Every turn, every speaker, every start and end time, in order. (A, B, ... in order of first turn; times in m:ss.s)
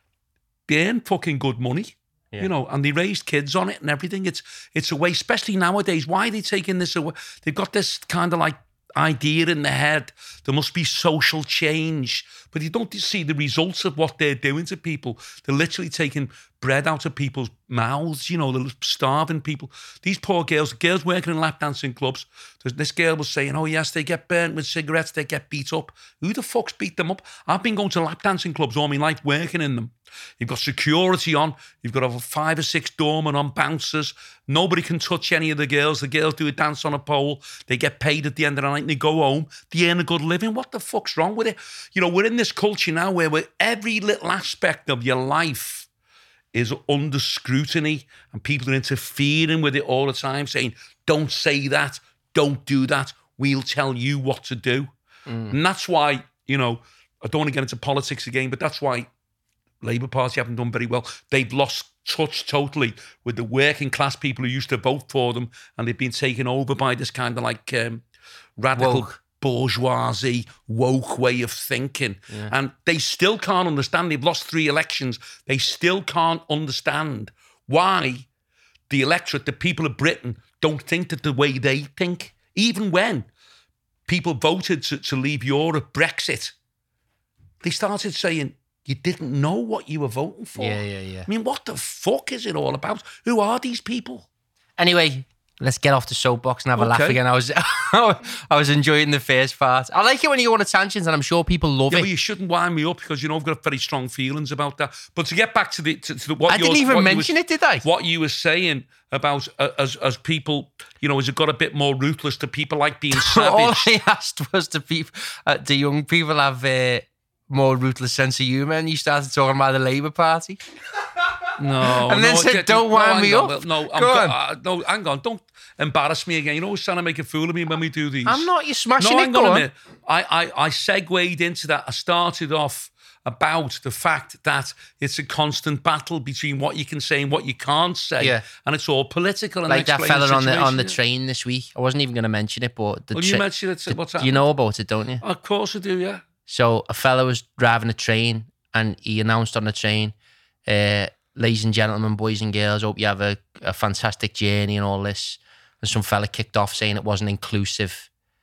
0:00.7-0:45.9 A
0:46.5-0:54.9 A
0:55.3-0:55.6 B
0:55.5-0:59.1 A
0:59.8-1:08.0 A
1:08.6-1:18.3 A
1:08.8-1:09.2 B
1:18.9-1:23.3 A
1:24.1-1:26.6 A
1:27.6-1:34.3 A
1:30.6-1:31.3 B
1:34.8-1:42.1 B
1:36.8-1:37.2 A
1:41.9-1:53.9 A
1:46.5-1:47.9 B
1:53.1-2:00.6 B
2:01.6-2:08.5 A
2:02.0-2:04.4 B
2:08.3-2:09.7 B
2:09.0-2:21.0 A
2:19.7-2:25.2 B
2:23.1-2:24.4 A
2:25.2-2:26.2 A
2:26.5-2:30.2 B
2:30.7-2:38.1 B